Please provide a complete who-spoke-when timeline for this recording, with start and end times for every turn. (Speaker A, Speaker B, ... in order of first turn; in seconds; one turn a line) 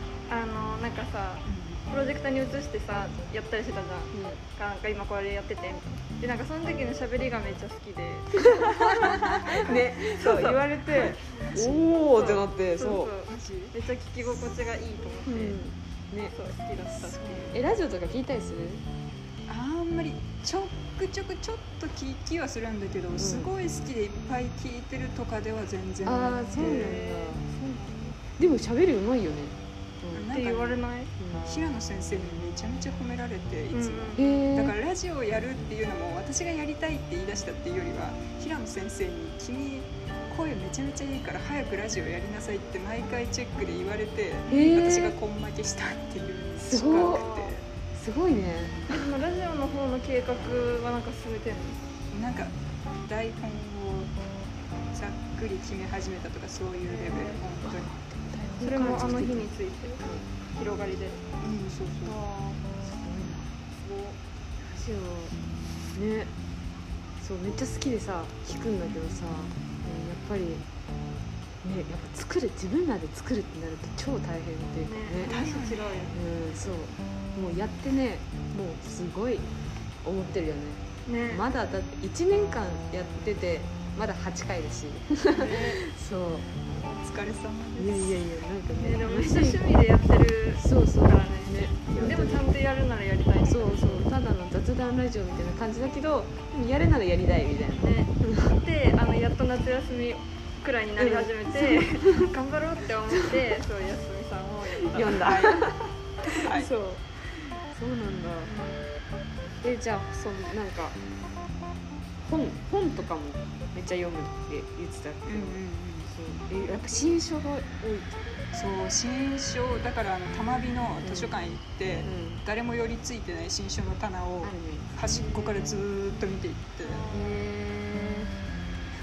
Speaker A: 0.3-11.2
Speaker B: 1.5-1.8
Speaker C: 4.1-4.4
Speaker C: 8.4-13.1
Speaker B: 11.4-11.8
Speaker A: 12.1-15.6
Speaker B: 13.3-13.8
Speaker C: 15.3-16.3
Speaker A: 16.3-17.6
Speaker B: 17.0-17.6
Speaker C: 17.5-18.8
Speaker B: 19.5-27.0
Speaker C: 23.2-23.5
Speaker C: 26.0-27.4
Speaker A: 26.5-28.2
Speaker C: 28.4-30.3
Speaker B: 30.1-30.8
Speaker A: 30.3-31.1
Speaker C: 31.2-31.5
Speaker B: 31.4-47.6
Speaker A: 33.7-34.5
Speaker C: 34.2-34.8
Speaker C: 44.5-45.2
Speaker C: 46.6-47.3
Speaker A: 46.8-47.6
Speaker C: 47.9-48.9
Speaker A: 48.9-51.8
Speaker B: 52.1-54.1
Speaker B: 54.9-58.0
Speaker A: 56.9-57.4
Speaker C: 57.6-59.5
Speaker A: 58.6-60.0
Speaker A: 60.5-61.2
Speaker B: 61.4-62.2
Speaker A: 62.0-62.6
Speaker C: 62.8-63.5
Speaker A: 63.8-64.2
Speaker C: 64.7-65.3
Speaker C: 65.9-66.3
Speaker C: 67.2-70.7
Speaker C: 71.6-75.4
Speaker A: 74.8-76.2
Speaker B: 75.2-76.1
Speaker C: 76.1-79.5
Speaker C: 80.0-86.5
Speaker A: 81.1-81.5
Speaker A: 85.4-85.8
Speaker B: 85.4-85.8
Speaker B: 86.8-88.2
Speaker C: 87.8-89.6
Speaker A: 88.8-94.1
Speaker C: 90.6-92.5
Speaker C: 93.5-98.6
Speaker A: 97.8-105.3
Speaker C: 101.0-102.3
Speaker C: 104.9-108.5
Speaker B: 105.1-106.7
Speaker A: 108.5-108.9
Speaker C: 109.6-111.0
Speaker C: 112.2-118.2
Speaker B: 115.3-116.1
Speaker B: 118.5-127.1
Speaker C: 121.0-121.4
Speaker C: 122.0-122.4
Speaker C: 124.4-125.0
Speaker A: 126.8-127.4
Speaker C: 127.1-128.3